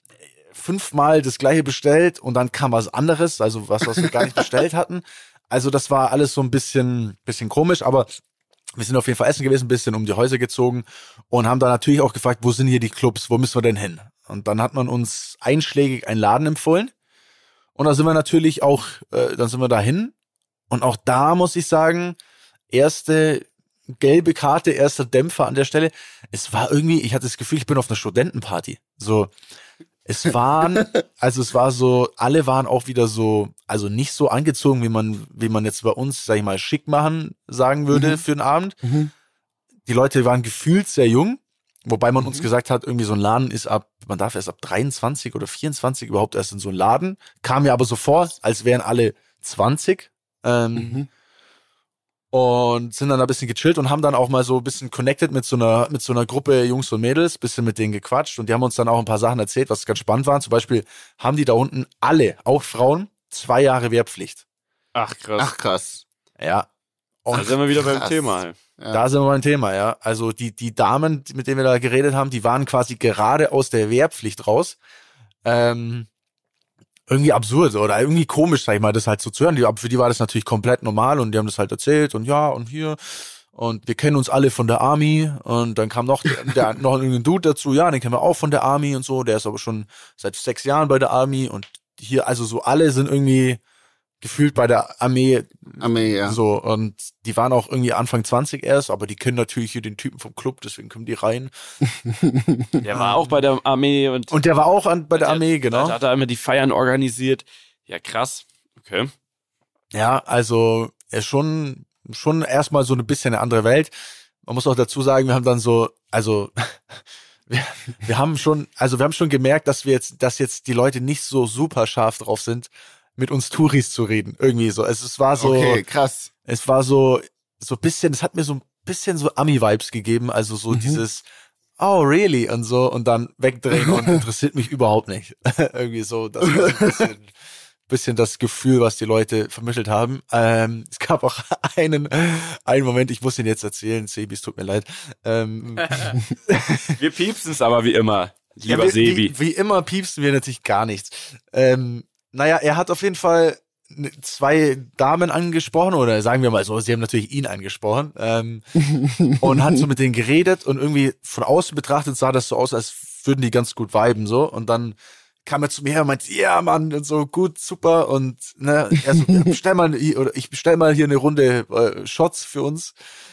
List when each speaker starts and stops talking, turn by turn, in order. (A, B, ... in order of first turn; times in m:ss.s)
0:00.5-0:08.1 A
0:08.8-0:16.9 A
0:17.8-0:20.1 A
0:20.7-0:22.2 A
0:22.7-0:29.3 A
0:30.0-0:38.8 A
0:37.9-0:38.2 B
0:38.8-0:39.1 B
0:39.8-0:51.0 A
0:50.8-0:51.1 B
0:52.3-1:04.4 A
1:04.9-1:05.5 C
1:05.4-1:06.0 B
1:06.4-1:06.7 A
1:07.2-1:07.5 A
1:07.3-1:08.5 C
1:07.3-1:09.0 B
1:08.9-1:14.8 A
1:15.4-1:16.1 A
1:17.1-1:33.6 A
1:34.2-1:41.5 A
1:35.8-1:36.4 B
1:42.0-1:42.7 B
1:42.8-1:44.4 C
1:42.9-1:43.4 A
1:44.3-1:46.0 A
1:45.1-1:49.1 C
1:49.9-1:53.9 A
1:54.4-2:05.8 A
2:05.4-2:06.3 B
2:06.4-2:11.2 A
2:10.7-2:11.0 B
2:11.8-2:17.3 A
2:13.8-2:14.2 B
2:17.9-2:27.0 A
2:27.0-2:29.3 C
2:28.7-2:38.7 A
2:38.9-2:39.3 B
2:39.4-2:52.9 A